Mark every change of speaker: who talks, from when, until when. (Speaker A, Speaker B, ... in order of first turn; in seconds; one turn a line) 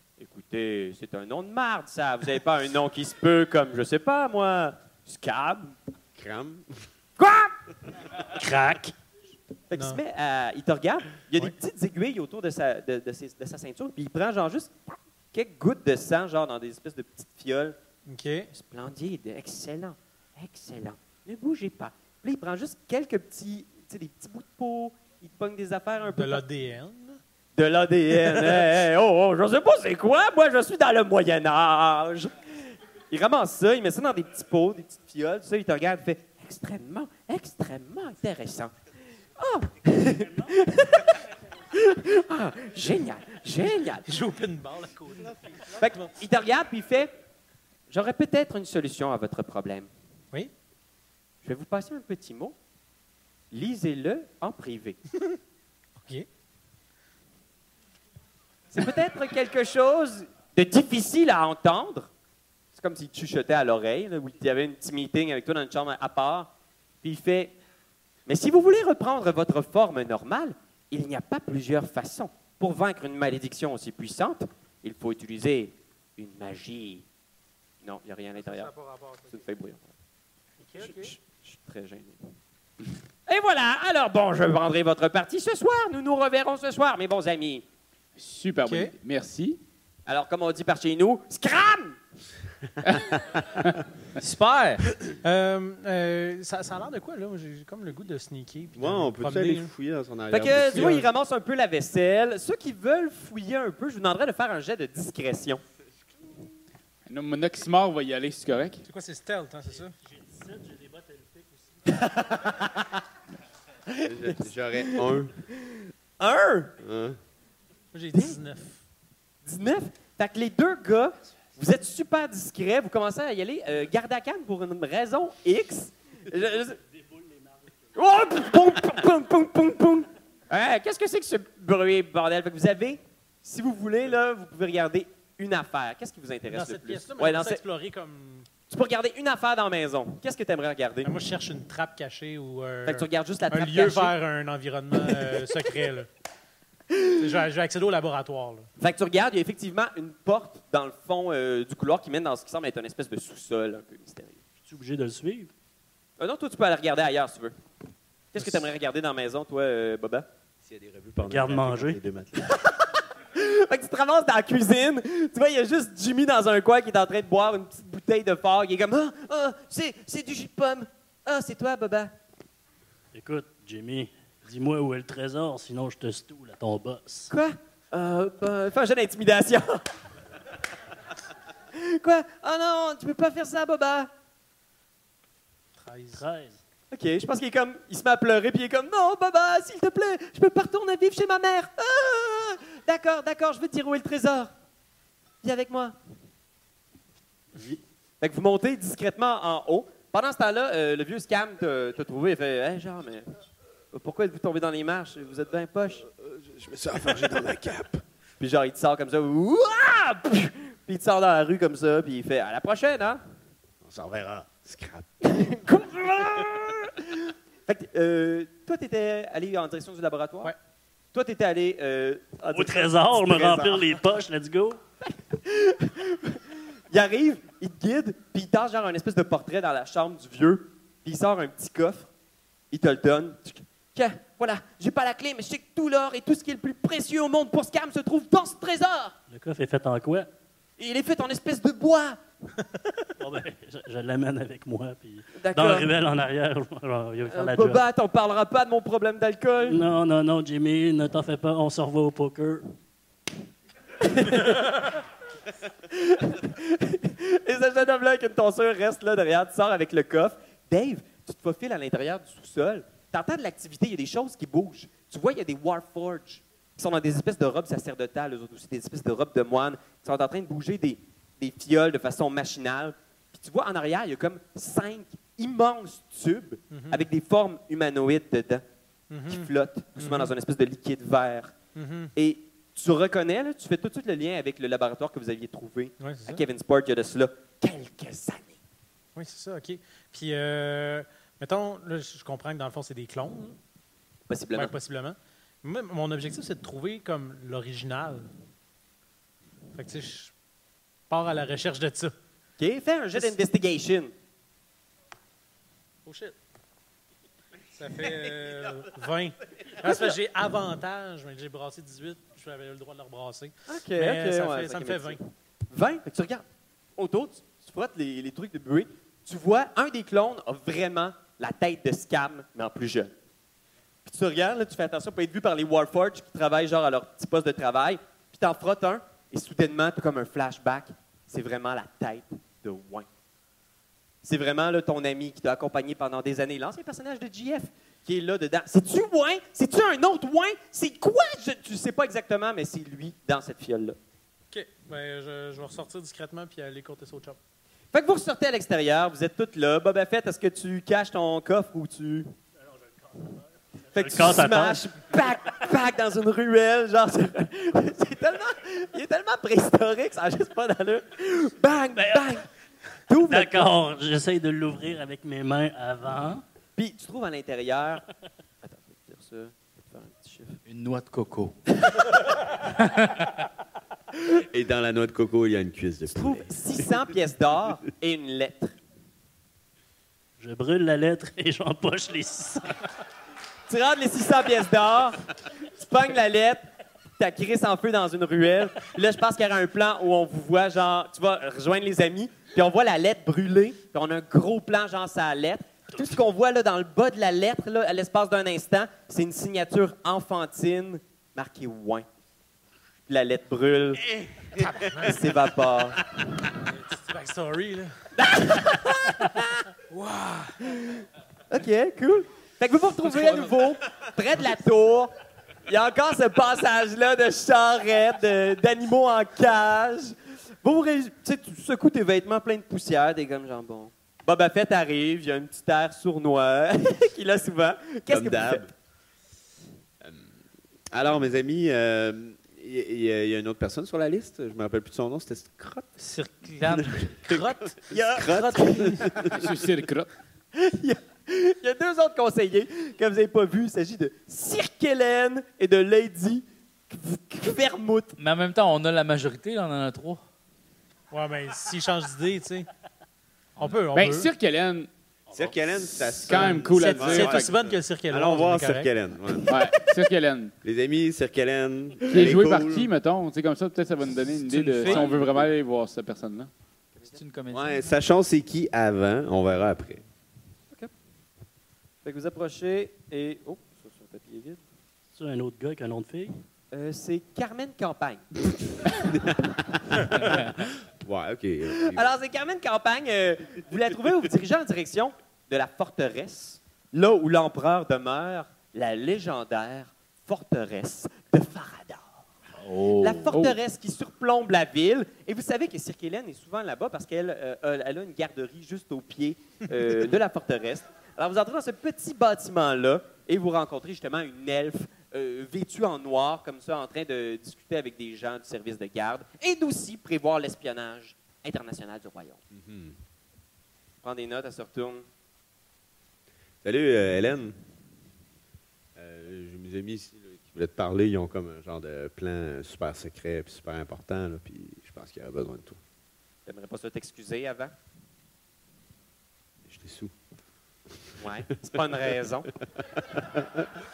Speaker A: 0.2-5.7
Speaker B: 6.1-6.7
Speaker A: 7.2-7.5
Speaker C: 8.3-8.9
Speaker A: 9.7-14.7
Speaker D: 9.7-10.0
Speaker A: 15.3-17.8
Speaker D: 18.1-18.5
Speaker A: 18.6-26.4
Speaker D: 26.1-27.2
Speaker A: 27.5-32.3
Speaker A: 33.1-38.7
Speaker A: 39.4-41.2
Speaker C: 40.2-40.5
Speaker A: 41.7-44.1
Speaker D: 44.0-46.1
Speaker A: 45.8-47.1
Speaker A: 47.9-49.9
Speaker A: 51.4-52.5
Speaker A: 53.5-55.0
Speaker D: 56.0-56.3
Speaker A: 58.7-62.1
Speaker A: 62.7-66.5
Speaker A: 67.0-67.5
Speaker A: 68.3-77.0
Speaker A: 77.8-78.7
Speaker D: 78.6-79.2
Speaker A: 79.3-79.9
Speaker D: 80.6-81.2
Speaker A: 80.8-82.2
Speaker A: 83.3-87.6
Speaker E: 88.2-89.6
Speaker D: 88.6-88.9
Speaker A: 90.0-92.0
Speaker E: 92.8-93.8
Speaker F: 94.2-94.8
Speaker D: 95.2-99.7
Speaker B: 98.7-101.0
Speaker A: 100.3-105.6
Speaker D: 100.7-101.1
Speaker E: 107.1-108.8
Speaker D: 108.8-109.9
Speaker C: 110.0-111.5
Speaker A: 111.9-113.0
Speaker A: 113.9-116.7
Speaker B: 114.0-115.3
Speaker B: 116.8-117.2
Speaker D: 117.9-118.8
Speaker A: 119.4-126.8
Speaker A: 128.0-137.6
Speaker D: 136.5-138.5
Speaker A: 138.7-141.2
Speaker D: 141.0-146.1
Speaker A: 142.8-144.2
Speaker A: 145.1-145.4
Speaker A: 146.9-147.3
Speaker D: 147.2-148.7
Speaker A: 148.8-154.4
Speaker C: 154.6-155.5
Speaker A: 156.2-157.5
Speaker A: 158.3-160.3
Speaker B: 160.6-162.5
Speaker C: 161.2-162.0
Speaker A: 162.4-172.1
Speaker C: 173.1-177.3
Speaker A: 177.3-179.8
Speaker A: 181.7-184.1
Speaker D: 185.8-186.2
Speaker C: 186.2-186.6
Speaker A: 186.9-194.5
Speaker A: 195.4-195.9
Speaker A: 197.5-203.3
Speaker A: 203.9-206.1
Speaker B: 206.1-208.0
Speaker A: 208.4-213.2
Speaker B: 213.8-215.1
Speaker A: 215.2-220.5
Speaker A: 221.1-223.9
Speaker C: 222.5-224.8
Speaker A: 225.1-232.1
Speaker A: 232.7-239.1
Speaker C: 239.3-240.3
Speaker A: 240.8-242.2
Speaker C: 243.2-247.8
Speaker A: 245.4-245.9
Speaker A: 247.3-249.8
Speaker C: 249.6-252.7
Speaker A: 254.0-255.0
Speaker A: 255.9-278.6
Speaker D: 276.7-277.1
Speaker D: 279.1-280.3
Speaker A: 279.3-281.5
Speaker D: 281.7-282.1
Speaker A: 282.1-288.6
Speaker D: 286.0-286.4
Speaker D: 289.1-293.6
Speaker A: 294.3-294.7
Speaker D: 294.5-298.3
Speaker D: 299.7-300.3
Speaker D: 301.1-302.1
Speaker A: 302.6-304.1
Speaker D: 306.1-306.4
Speaker D: 307.7-315.2
Speaker A: 313.7-316.4
Speaker A: 316.9-323.1
Speaker A: 324.0-333.1
Speaker A: 334.2-344.0
Speaker D: 344.5-347.4
Speaker A: 347.9-352.3
Speaker C: 353.1-353.4
Speaker C: 353.9-354.8
Speaker A: 353.9-362.4
Speaker C: 362.0-362.4
Speaker A: 363.1-363.7
Speaker C: 363.3-366.4
Speaker A: 366.8-368.0
Speaker A: 368.6-370.6
Speaker F: 370.7-371.6
Speaker F: 372.7-373.3
Speaker B: 374.3-376.9
Speaker A: 376.1-378.8
Speaker C: 380.4-382.7
Speaker A: 383.7-385.2
Speaker A: 385.7-386.6
Speaker A: 387.2-402.1
Speaker A: 403.1-404.1
Speaker D: 404.6-405.2
Speaker A: 404.9-406.1
Speaker D: 406.6-408.1
Speaker A: 408.2-409.6
Speaker D: 409.9-410.6
Speaker A: 410.7-415.1
Speaker A: 415.7-428.6
Speaker B: 428.1-428.7
Speaker B: 430.9-435.9
Speaker F: 436.0-437.0
Speaker B: 436.7-439.4
Speaker D: 437.2-439.1
Speaker A: 437.9-438.9
Speaker E: 439.3-440.1
Speaker A: 440.5-448.1
Speaker F: 448.2-450.2
Speaker D: 451.1-452.7
Speaker D: 453.6-454.3
Speaker E: 453.9-454.9
Speaker C: 455.3-455.5
Speaker B: 455.3-459.6
Speaker E: 456.2-457.5
Speaker D: 456.3-458.9
Speaker E: 459.5-460.5
Speaker B: 460.6-462.9
Speaker E: 462.1-466.5
Speaker F: 464.4-465.3
Speaker A: 464.8-465.1
Speaker A: 466.9-467.2
Speaker F: 467.1-467.8
Speaker B: 467.5-470.0
Speaker A: 472.0-474.6
Speaker C: 475.1-476.4
Speaker A: 476.7-478.2
Speaker B: 478.9-482.1
Speaker A: 481.9-492.1
Speaker F: 492.6-493.3
Speaker A: 493.0-512.4
Speaker E: 493.3-493.6
Speaker B: 512.5-513.0
Speaker A: 514.0-515.0
Speaker B: 516.6-517.5
Speaker B: 519.0-525.8
Speaker A: 526.5-527.7
Speaker B: 529.7-530.1
Speaker A: 531.2-532.5
Speaker B: 533.0-533.7